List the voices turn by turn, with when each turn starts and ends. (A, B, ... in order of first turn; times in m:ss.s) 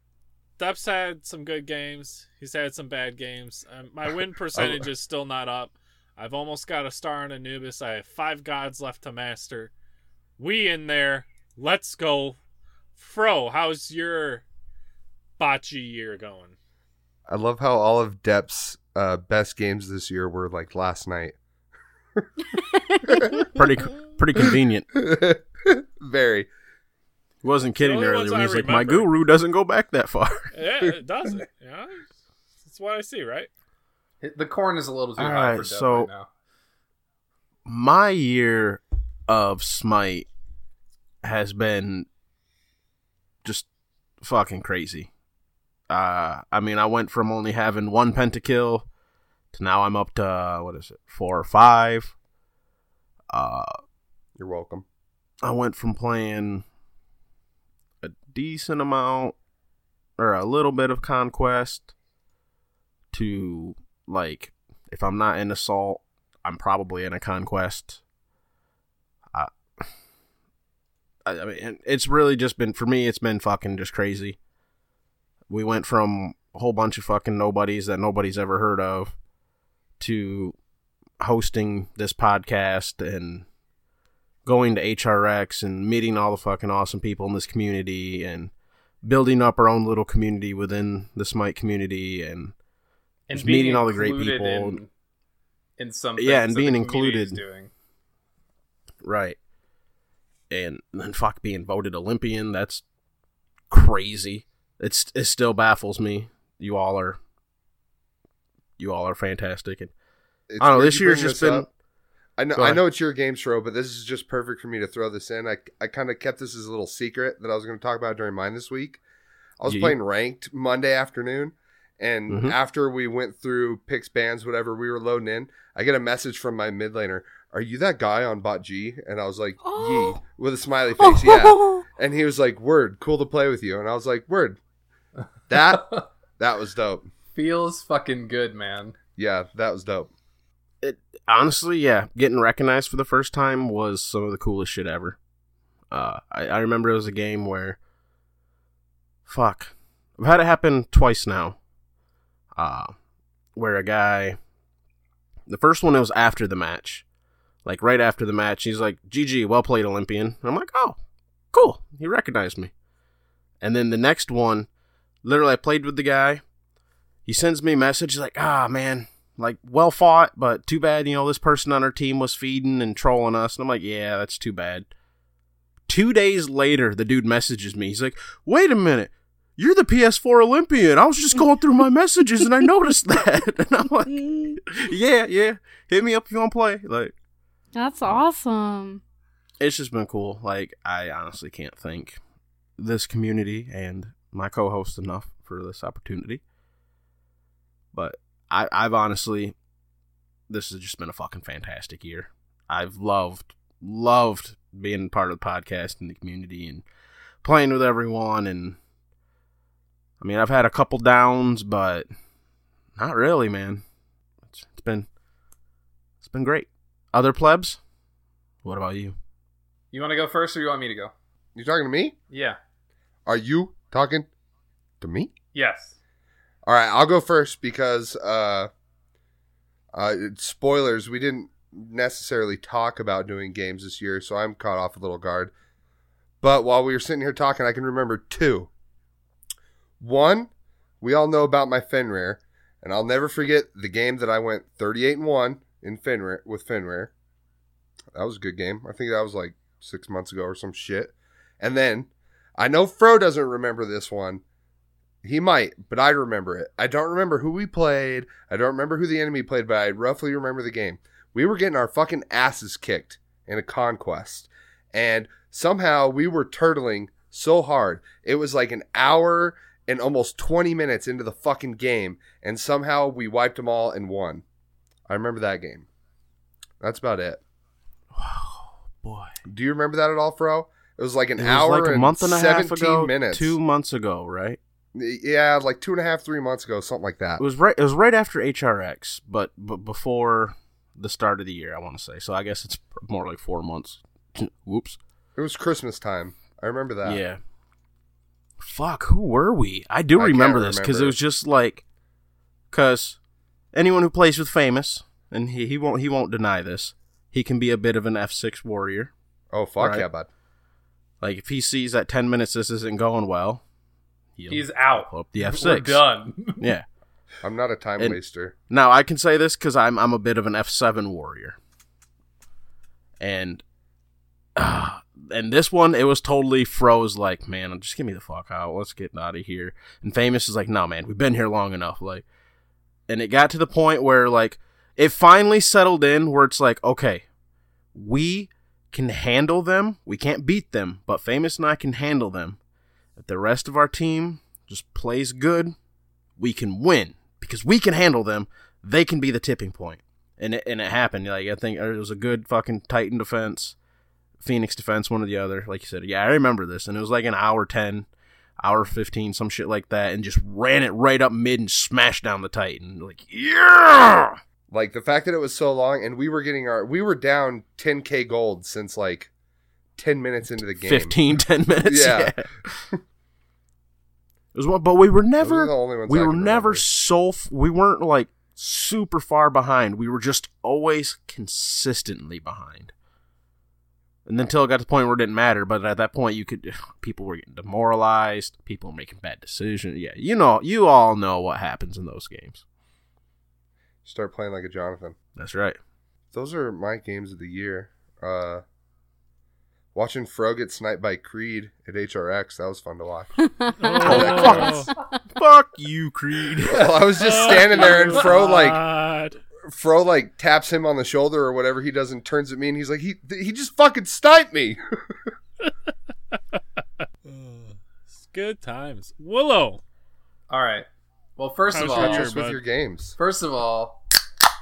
0:00.6-0:09.7 A
0:04.6-0:04.8 B
0:10.4-0:12.4 A
0:13.0-0:14.4 A
0:15.4-0:16.5 A
0:17.3-0:21.4 B
0:22.9-0:23.3 C
0:23.0-0:23.4 B
0:23.4-0:24.9 D
0:24.5-0:26.5 B
0:27.4-0:30.5 D
0:27.8-0:29.1 A
0:30.5-0:32.1 A
0:32.6-0:33.5 A
0:34.2-0:36.3 E
0:35.2-0:36.1 D
0:37.6-0:40.2 D
0:41.2-0:42.1 D
0:44.2-0:45.1 D
0:45.9-0:48.8 D
0:49.5-0:52.1 D
0:53.3-0:53.7 D
0:54.4-0:54.8 B
0:55.4-0:56.6 D
0:58.0-0:59.4 D
1:00.2-1:01.9 D
1:03.1-1:08.0 D
1:09.3-1:09.9 D
1:11.2-1:14.4 D
1:15.5-1:19.1 D
1:20.0-1:20.5 D
1:21.2-1:23.4 D
1:24.4-1:28.5 D
1:29.0-1:32.5 D
1:33.3-1:34.9 E
1:33.3-1:34.8 D
1:35.8-1:37.7 E
1:36.2-1:37.4 D
1:39.0-1:39.4 D
1:40.5-1:42.8 D
1:43.7-1:47.2 D
1:48.8-1:49.9 D
1:50.5-1:51.6 B
1:50.6-1:51.7 D
1:52.4-1:59.0 B
1:52.5-1:52.8 D
1:59.6-2:14.6 B
1:59.6-2:00.0 D
2:02.3-2:02.5 D
2:09.6-2:10.2 C
2:11.0-2:11.8 C
2:15.5-2:17.1 B
2:15.7-2:16.0 E
2:17.3-2:19.0 E
2:19.2-2:20.1 B
2:20.8-2:25.2 D
2:25.9-2:27.8 D
2:29.2-2:31.6 D
2:32.6-2:32.9 D
2:33.5-2:34.4 D
2:35.5-2:37.0 D
2:37.6-2:41.0 D
2:41.5-2:42.7 D
2:43.6-2:44.7 D
2:45.2-2:46.4 D
2:47.2-2:54.9 D
2:55.9-3:07.1 D
3:04.1-3:04.6 C
3:07.7-3:09.0 C
3:09.6-3:12.2 D
3:12.8-3:16.4 D
3:17.9-3:19.5 D
3:20.5-3:26.8 D
3:27.4-3:28.8 D
3:30.2-3:32.0 D
3:33.0-3:33.8 D
3:34.5-3:35.1 D
3:36.2-3:37.8 D
3:38.6-3:39.2 D
3:39.9-3:41.1 E
3:41.5-3:42.2 B
3:42.3-3:42.6 E
3:43.2-3:44.3 B
3:45.0-3:45.3 B
3:45.5-3:46.0 E
3:46.6-3:48.7 B
3:49.9-3:55.5 B
3:56.4-3:58.7 B
4:00.0-4:00.5 B
4:01.0-4:07.1 B
4:08.1-4:14.4 B
4:15.2-4:34.4 B
4:35.1-4:35.9 B
4:36.8-4:37.4 B
4:38.1-4:39.4 D
4:39.5-4:43.6 B
4:41.4-4:44.6 D
4:44.9-4:47.4 B
4:47.4-4:55.0 D
4:55.4-4:57.2 B
4:57.0-4:57.4 D
4:58.6-5:01.8 D
5:00.2-5:01.1 B
5:02.7-5:03.2 D
5:03.7-5:09.1 D
5:09.5-5:10.3 B
5:09.8-5:10.0 D
5:11.2-5:13.6 D
5:14.4-5:16.0 D
5:14.5-5:16.6 E
5:16.6-5:16.8 D
5:17.4-5:18.5 B
5:18.7-5:21.6 D
5:23.2-5:23.6 D
5:24.6-5:32.2 D
5:33.1-5:37.2 D
5:37.9-5:42.6 D
5:43.2-5:45.7 D
5:46.4-5:53.8 D
5:54.4-5:58.1 D
5:58.6-6:04.4 D
6:04.7-6:09.3 B
6:10.0-6:11.2 B
6:10.8-6:12.8 D
6:11.8-6:12.3 B
6:14.5-6:22.9 D
6:15.4-6:16.8 B
6:24.2-6:32.6 D
6:34.0-6:35.2 B
6:35.4-6:35.8 D
6:36.3-6:38.6 B
6:39.9-6:43.3 B
6:43.4-6:45.1 C
6:43.8-6:44.9 A
6:44.0-6:46.9 D
6:44.0-6:44.7 B
6:46.7-6:48.8 B
6:47.2-6:49.4 A
6:47.5-6:48.3 E
6:49.7-6:54.8 B
6:57.2-6:59.8 A
7:00.5-7:02.3 E
7:01.7-7:02.6 A
7:01.7-7:03.2 B
7:03.2-7:04.0 E